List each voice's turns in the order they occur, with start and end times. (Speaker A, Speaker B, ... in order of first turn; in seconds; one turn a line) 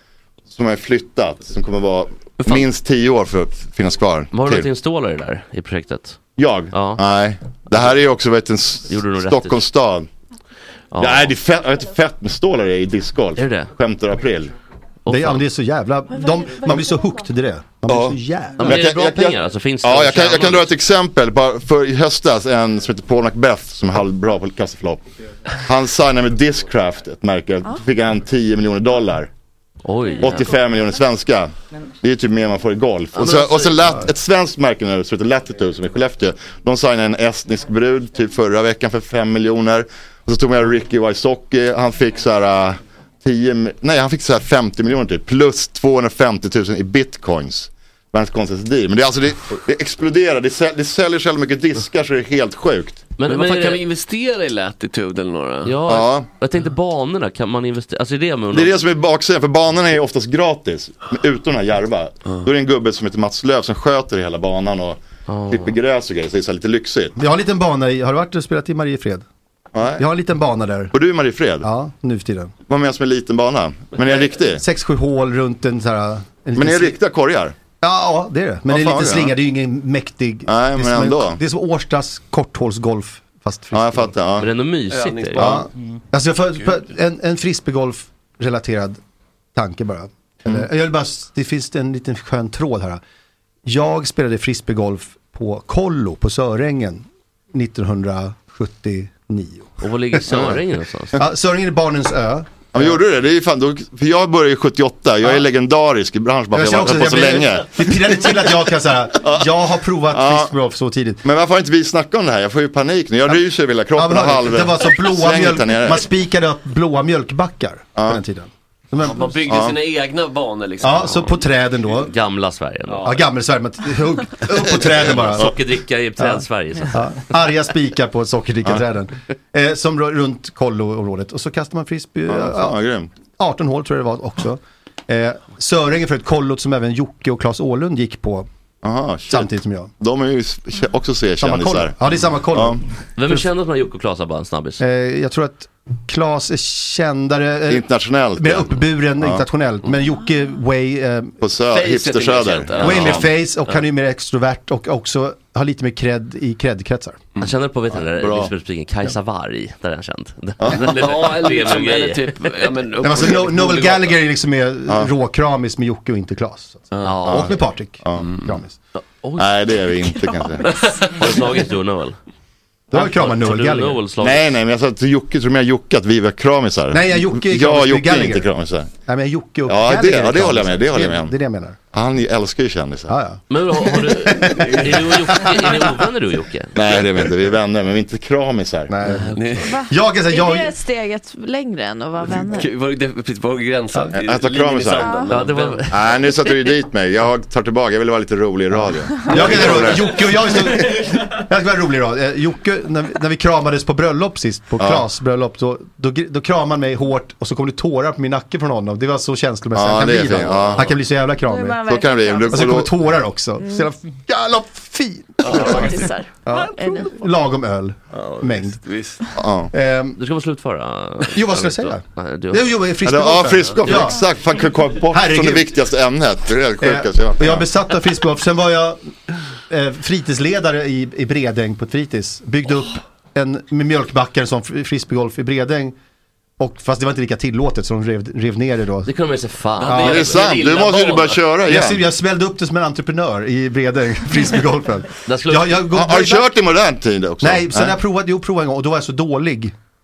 Speaker A: 0.5-4.7
Speaker B: 4.3-6.2
Speaker A: 6.4-10.1
Speaker B: 6.7-7.0
Speaker B: 8.9-9.6
Speaker B: 10.9-11.3
Speaker A: 11.0-14.5
Speaker B: 13.4-13.7
Speaker B: 15.1-15.4
Speaker C: 15.1-18.8
Speaker D: 16.1-17.2
Speaker A: 17.9-25.0
Speaker B: 18.6-20.7
Speaker A: 25.6-29.3
Speaker B: 29.8-30.6
Speaker D: 30.2-30.5
Speaker A: 30.2-53.1
Speaker B: 33.1-34.0
Speaker B: 53.2-53.8
Speaker E: 53.2-55.8
Speaker B: 55.6-58.8
Speaker A: 55.9-56.2
Speaker A: 58.5-67.1
Speaker B: 65.3-65.8
Speaker C: 67.2-69.2
Speaker A: 69.7-70.0
Speaker C: 70.0-70.9
Speaker A: 70.9-71.7
Speaker C: 71.6-72.5
Speaker A: 72.7-74.6
Speaker C: 74.0-77.0
Speaker A: 76.5-77.5
Speaker C: 77.8-84.1
Speaker A: 78.7-79.3
Speaker A: 80.5-81.4
Speaker A: 83.7-84.5
Speaker B: 84.4-85.5
Speaker E: 84.9-85.7
Speaker C: 85.4-89.0
Speaker C: 89.5-93.0
Speaker C: 93.7-100.5
Speaker B: 99.8-101.2
Speaker C: 101.1-103.0
Speaker A: 102.7-108.2
Speaker C: 106.5-111.2
Speaker A: 110.1-110.5
Speaker A: 111.2-116.0
Speaker C: 113.9-119.3
Speaker E: 119.0-121.3
Speaker A: 119.5-119.8
Speaker C: 120.8-122.1
Speaker B: 122.0-123.2
Speaker E: 122.9-123.2
Speaker C: 123.0-125.5
Speaker B: 124.9-127.1
Speaker C: 126.2-132.8
Speaker A: 132.3-133.1
Speaker C: 133.4-138.5
Speaker A: 138.8-142.0
Speaker C: 139.3-139.9
Speaker C: 141.4-143.5
Speaker A: 142.5-142.8
Speaker B: 143.2-144.8
Speaker C: 144.8-151.4
Speaker A: 147.7-149.4
Speaker A: 151.4-153.3
Speaker E: 151.7-153.8
Speaker C: 152.8-157.2
Speaker B: 157.4-162.7
Speaker A: 157.9-158.5
Speaker A: 160.6-161.0
Speaker E: 160.7-164.2
Speaker C: 163.0-168.7
Speaker E: 166.9-167.4
Speaker B: 167.0-167.5
Speaker A: 168.0-168.3
Speaker B: 168.9-169.5
Speaker A: 169.4-170.7
Speaker E: 170.7-171.5
Speaker B: 171.0-172.2
Speaker C: 172.9-174.0
Speaker B: 172.9-174.4
Speaker A: 174.2-178.9
Speaker C: 176.9-178.5
Speaker C: 179.0-181.8
Speaker A: 179.7-181.3
Speaker A: 181.9-183.1
Speaker C: 183.1-185.7
Speaker B: 183.5-186.7
Speaker E: 184.4-185.5
Speaker A: 186.7-188.9
Speaker C: 188.9-190.7
Speaker B: 189.0-189.4
Speaker E: 189.3-189.7
Speaker D: 189.6-192.7
Speaker E: 192.3-195.9
Speaker A: 194.1-195.1
Speaker D: 194.9-195.4
Speaker B: 195.3-196.2
Speaker A: 195.9-200.1
Speaker C: 199.3-211.8
Speaker A: 204.8-205.0
Speaker A: 209.7-210.9
Speaker D: 211.4-212.7
Speaker A: 211.9-212.9
Speaker C: 212.5-218.8
Speaker D: 213.6-213.9
Speaker E: 215.4-216.0
Speaker D: 215.5-217.1
Speaker E: 218.1-219.2
Speaker A: 219.3-219.7
Speaker C: 219.7-220.2
Speaker B: 220.2-222.7
Speaker C: 221.3-224.2
Speaker A: 223.0-227.7
Speaker C: 225.1-225.7
Speaker C: 226.8-229.1
Speaker C: 229.7-235.9
Speaker C: 236.6-239.1
Speaker B: 239.1-240.7
Speaker E: 239.8-241.4
Speaker C: 239.8-240.2
Speaker A: 239.9-242.0
Speaker C: 241.6-246.5
Speaker B: 245.3-245.8
Speaker A: 245.9-247.9
Speaker C: 247.4-249.7